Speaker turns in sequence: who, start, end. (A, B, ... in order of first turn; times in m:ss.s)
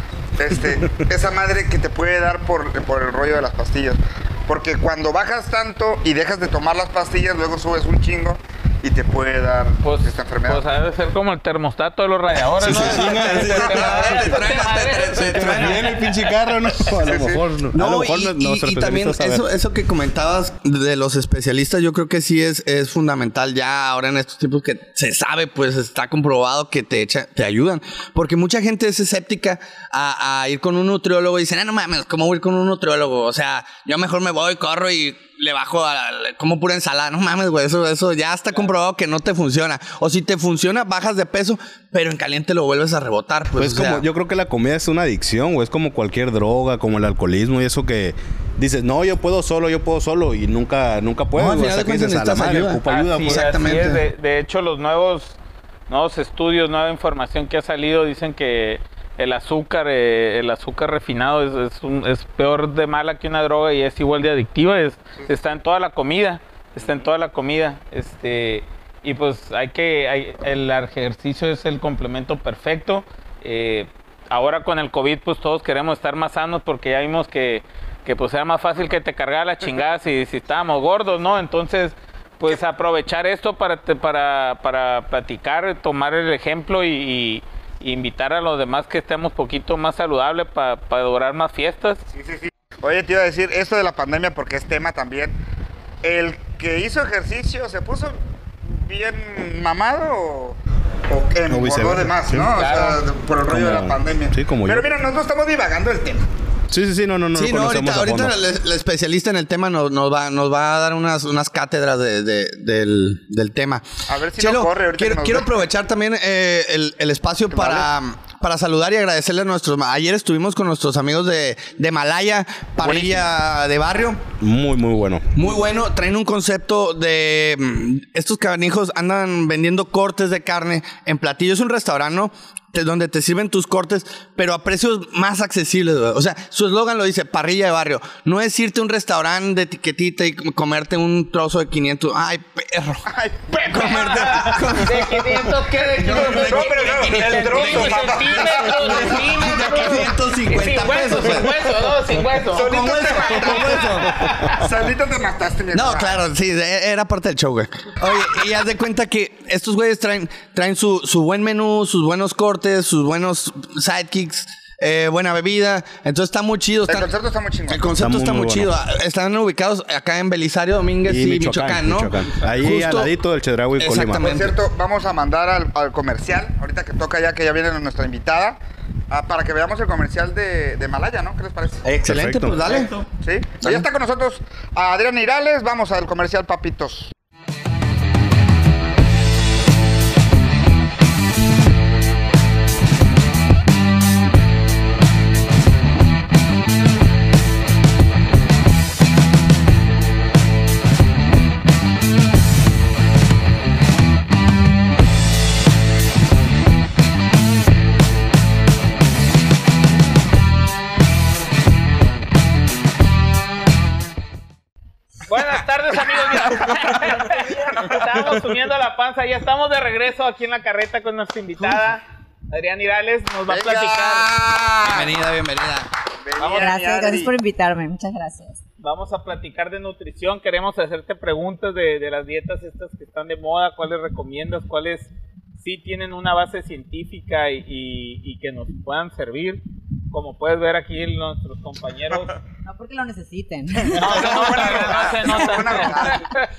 0:00.4-0:10.6 A
0:09.8-0:16.9 B
0:12.6-0:14.3 C
0:12.6-0:16.0 D
0:15.2-0:19.4 C
0:17.0-0:17.5 A
0:17.7-0:44.0 D
0:43.6-0:53.7 C
0:51.4-0:54.0 D
0:52.9-0:55.4 B
0:55.9-1:32.0 B
1:32.1-1:35.4 A
1:36.0-1:46.2 A
1:41.5-1:42.5 C
1:42.6-1:43.0 B
1:43.5-1:44.9 C
1:46.7-1:48.3 C
1:47.4-2:04.3 D
1:54.1-1:55.5 A
1:57.5-1:57.9 A
2:02.8-2:03.3 A
2:04.4-2:05.3 C
2:05.4-2:23.1 D
2:23.1-2:24.2 A
2:23.5-2:34.6 B
2:23.7-2:31.7 D
2:26.0-2:30.1 A
2:32.5-2:33.9 A
2:32.5-2:34.2 D
2:32.7-2:34.5 C
2:34.5-2:36.2 A
2:35.7-2:47.1 D
2:46.9-2:47.9 A
2:47.7-2:53.1 D
2:48.0-2:48.7 C
2:51.1-2:54.4 C
2:53.8-2:54.6 D
2:54.2-2:58.6 A
2:59.1-3:01.9 A
3:01.8-3:03.0 D
3:02.0-3:02.9 C
3:03.2-3:07.1 A
3:35.3-3:44.3 B
3:36.2-3:36.6 A
3:37.2-3:38.0 A
3:43.5-3:45.1 A
3:44.8-3:45.9 D
3:46.2-3:47.3 A
3:46.4-3:48.6 E
3:48.8-4:02.3 B
4:02.6-4:04.7 E
4:03.9-4:06.5 B
4:03.9-4:06.4 A